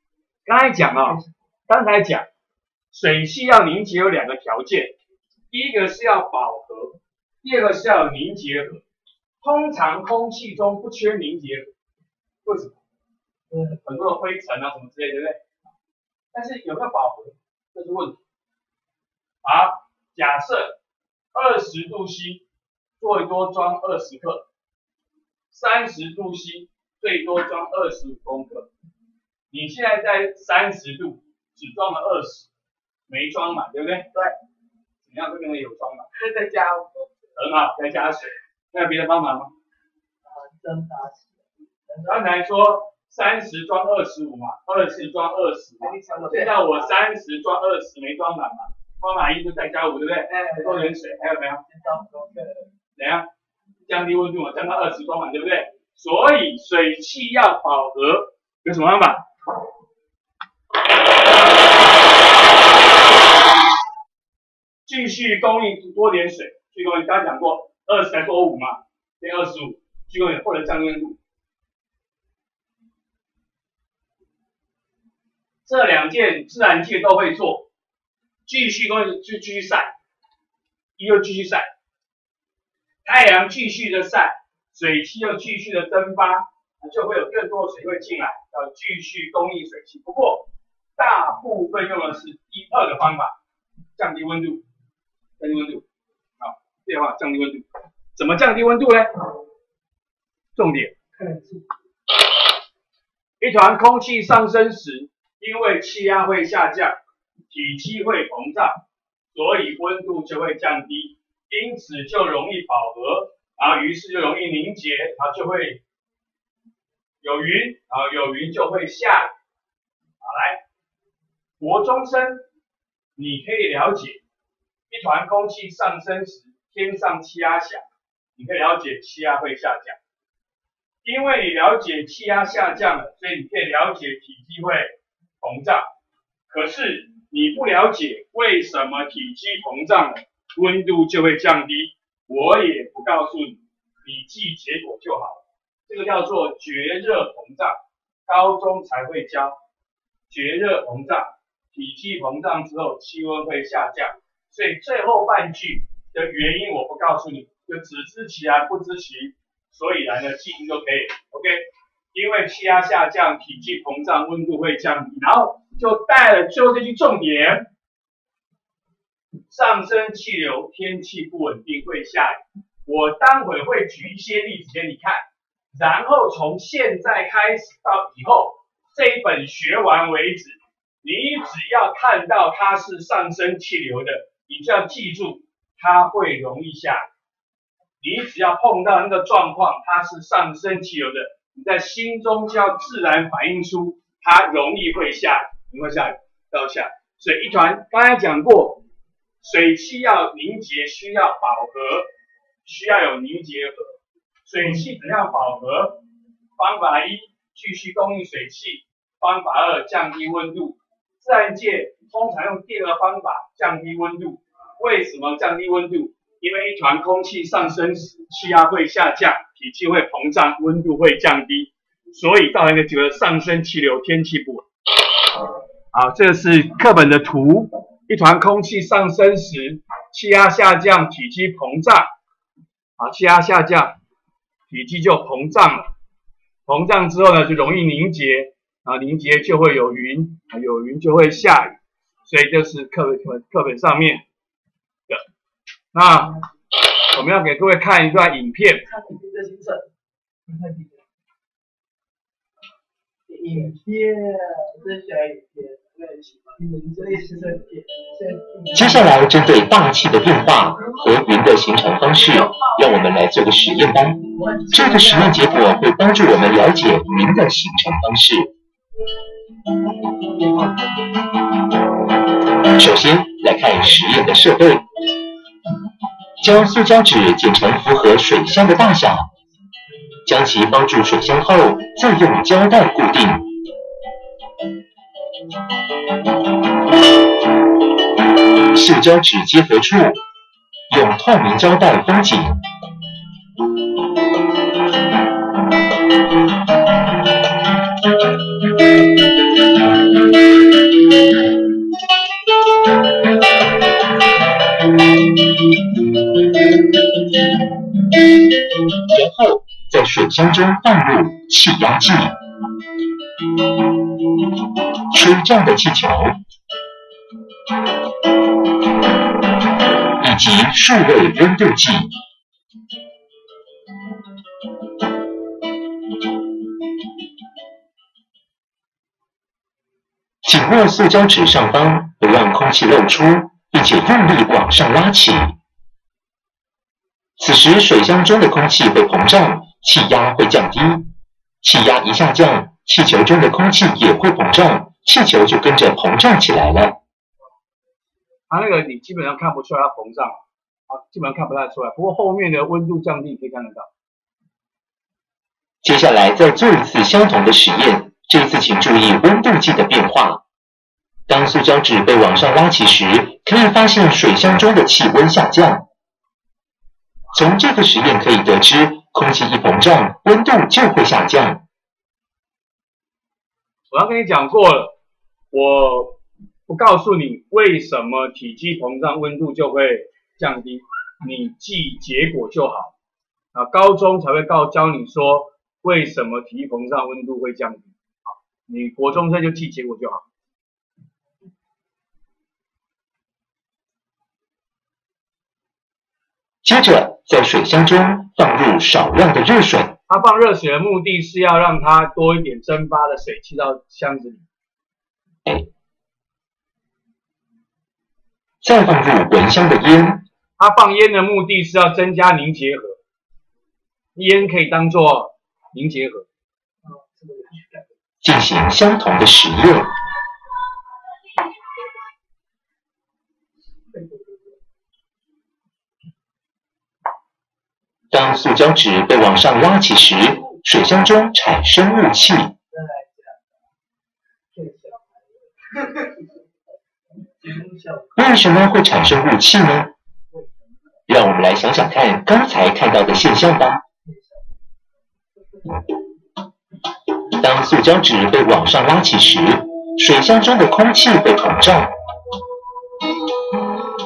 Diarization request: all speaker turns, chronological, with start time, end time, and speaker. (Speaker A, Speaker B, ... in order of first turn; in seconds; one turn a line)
Speaker A: 0.5-2.2
Speaker A: 2.9-4.9
Speaker A: 5.5-8.8
Speaker A: 9.4-11.7
Speaker A: 12.4-12.8
Speaker A: 13.8-15.4
Speaker A: 16.3-18.2
Speaker A: 19.4-20.8
Speaker A: 21.3-22.4
Speaker A: 23.0-24.5
Speaker A: 25.5-28.7
Speaker A: 29.5-32.5
Speaker A: 33.1-34.1
Speaker A: 35.0-36.1
Speaker B: 36.2-37.0
Speaker A: 37.4-39.5
Speaker B: 40.2-41.3
Speaker A: 42.0-51.6
Speaker B: 45.8-46.8
Speaker B: 50.3-50.9
Speaker B: 51.7-52.7
Speaker A: 53.0-53.3
Speaker A: 53.8-59.2
Speaker A: 64.8-71.2
Speaker A: 75.6-77.7
Speaker A: 78.5-79.9
Speaker A: 81.0-81.7
Speaker A: 83.0-93.3
Speaker A: 94.0-94.6
Speaker A: 95.4-95.8
Speaker A: 96.4-99.1
Speaker A: 100.5-101.0
Speaker B: 101.2-101.6
Speaker A: 103.4-107.0
Speaker A: 107.5-108.8
Speaker A: 109.3-115.8
Speaker A: 117.2-119.3
Speaker A: 120.2-120.6
Speaker A: 121.6-122.4
Speaker A: 123.2-124.2
Speaker A: 124.9-130.0
Speaker A: 131.0-135.9
Speaker A: 136.5-149.6
Speaker A: 150.3-167.7
Speaker A: 169.5-187.1
Speaker A: 188.0-198.8
Speaker A: 199.4-202.1
Speaker A: 202.6-206.0
Speaker A: 206.6-224.7
Speaker A: 225.9-232.1
Speaker A: 233.0-234.0
Speaker A: 234.7-235.9
Speaker A: 236.7-244.2
Speaker A: 245.9-246.4
Speaker A: 247.1-248.8
Speaker B: 248.9-249.8
Speaker B: 250.5-250.9
Speaker B: 253.3-258.9
Speaker C: 258.7-268.5
Speaker B: 264.4-265.3
Speaker B: 270.4-270.7
Speaker C: 272.7-274.8
Speaker C: 276.4-279.3
Speaker C: 280.2-283.5
Speaker C: 288.7-290.2
Speaker C: 290.9-292.6
Speaker C: 309.0-312.4
Speaker C: 315.1-316.4
Speaker C: 320.2-322.1
Speaker C: 330.4-335.5
Speaker C: 337.4-341.1
Speaker C: 341.6-347.0
Speaker A: 348.5-353.9
Speaker C: 355.8-360.4
Speaker C: 361.3-365.8
Speaker C: 367.3-371.6
Speaker A: 373.9-374.9
Speaker A: 375.5-382.9
Speaker A: 383.5-390.2
Speaker C: 396.6-400.0
Speaker A: 400.1-404.4
Speaker C: 408.6-410.2
Speaker A: 410.6-413.0
Speaker A: 414.1-416.3
Speaker B: 416.9-417.8
Speaker C: 418.2-419.9
Speaker B: 423.9-424.5
Speaker C: 428.1-432.5
Speaker B: 432.7-433.4
Speaker B: 434.5-436.2
Speaker B: 437.4-438.2
Speaker C: 438.1-439.9
Speaker C: 441.1-443.8
Speaker C: 447.4-451.9